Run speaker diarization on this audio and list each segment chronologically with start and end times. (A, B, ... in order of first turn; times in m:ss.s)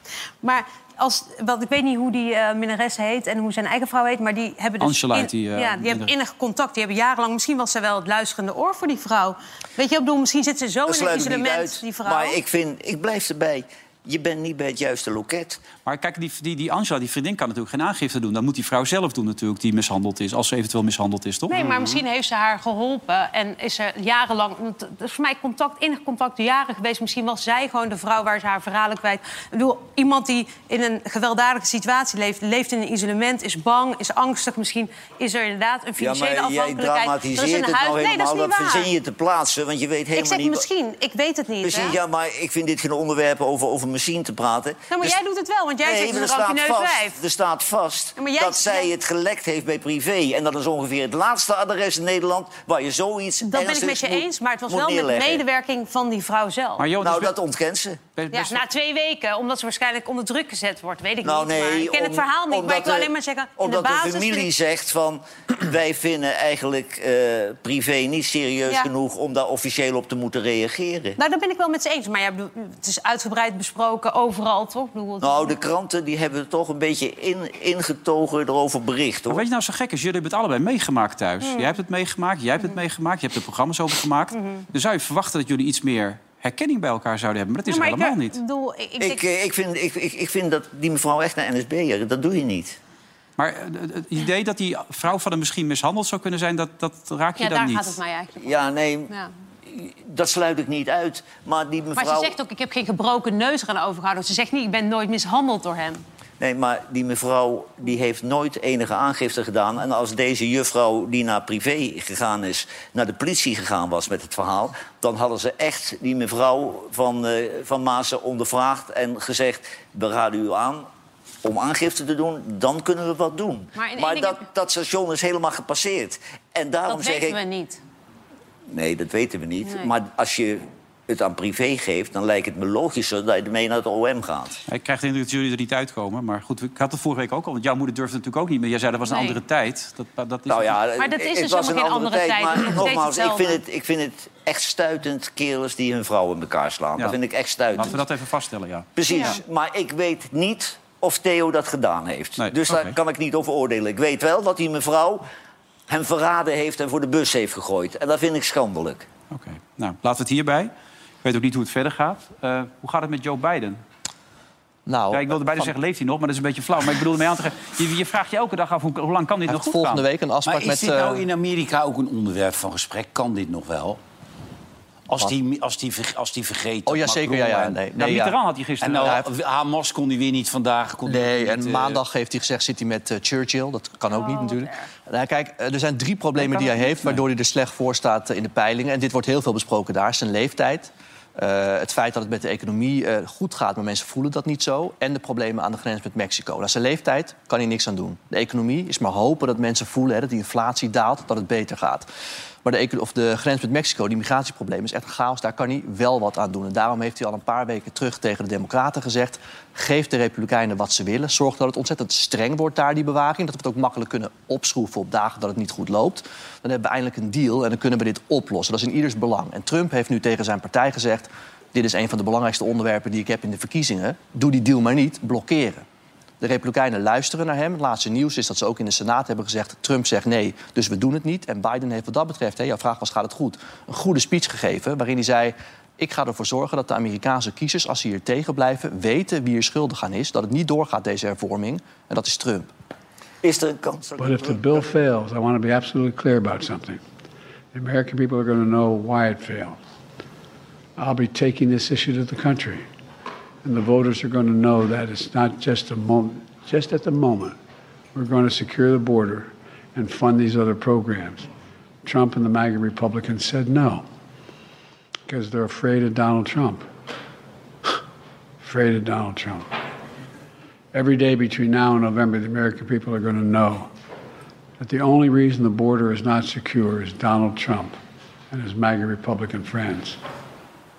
0:00.4-0:12.4 A
0:04.8-0:06.1 B
0:10.9-0:15.6 C
0:15.9-0:21.6 B
0:21.5-0:38.9 A
0:36.0-0:40.6 C
0:40.1-0:42.0 A
0:41.6-0:45.2 C
0:44.9-0:47.2 A
0:45.8-0:55.4 C
0:48.2-0:48.9 A
0:53.4-0:56.9 A
0:56.8-0:57.4 B
0:57.0-0:58.0 C
0:58.2-0:58.6 B
0:58.3-1:04.5 A
1:01.2-1:11.2 C
1:11.2-1:15.6 A
1:15.2-1:19.4 C
1:19.3-1:28.4 B
1:21.4-1:21.7 A
1:24.3-1:24.6 A
1:27.7-1:29.3 A
1:29.0-1:32.8 C
1:33.4-1:38.0 B
1:37.4-1:38.6 A
1:38.4-1:39.1 C
1:39.7-1:42.4 C
1:42.0-1:46.0 A
1:46.4-2:00.9 C
2:01.4-2:07.4 C
2:03.8-2:04.4 A
2:06.9-2:07.8 A
2:08.7-2:14.6 C
2:09.6-2:09.9 A
2:14.7-2:20.8 B
2:19.1-2:19.4 A
2:20.5-2:28.0 C
2:21.0-2:23.6 A
2:27.7-2:29.3 B
2:29.0-2:35.2 C
2:29.1-2:29.4 A
2:32.4-2:33.0 B
2:35.9-2:39.1 C
2:39.3-2:40.7 B
2:41.2-2:43.8 B
2:44.9-2:45.7 D
2:45.1-2:50.0 B
2:49.5-2:51.2 D
2:50.4-2:54.0 E
2:55.1-2:57.8 E
2:56.9-2:58.4 D
2:58.0-2:59.2 B
2:58.8-3:02.0 E
2:58.9-2:59.3 D
3:01.1-3:22.1 D
3:04.1-3:04.9 A
3:06.4-3:07.2 B
3:22.6-3:45.8 D
3:46.4-4:02.7 D
4:03.4-4:04.8 C
4:04.2-4:07.0 F
4:07.7-4:09.8 F
4:11.0-4:12.9 F
4:13.6-4:17.6 F
4:18.1-4:21.5 F
4:22.0-4:24.0 F
4:25.3-4:26.9 F
4:28.6-4:29.7 F
4:30.9-4:33.9 F
4:34.8-4:38.0 F
4:38.5-4:40.2 F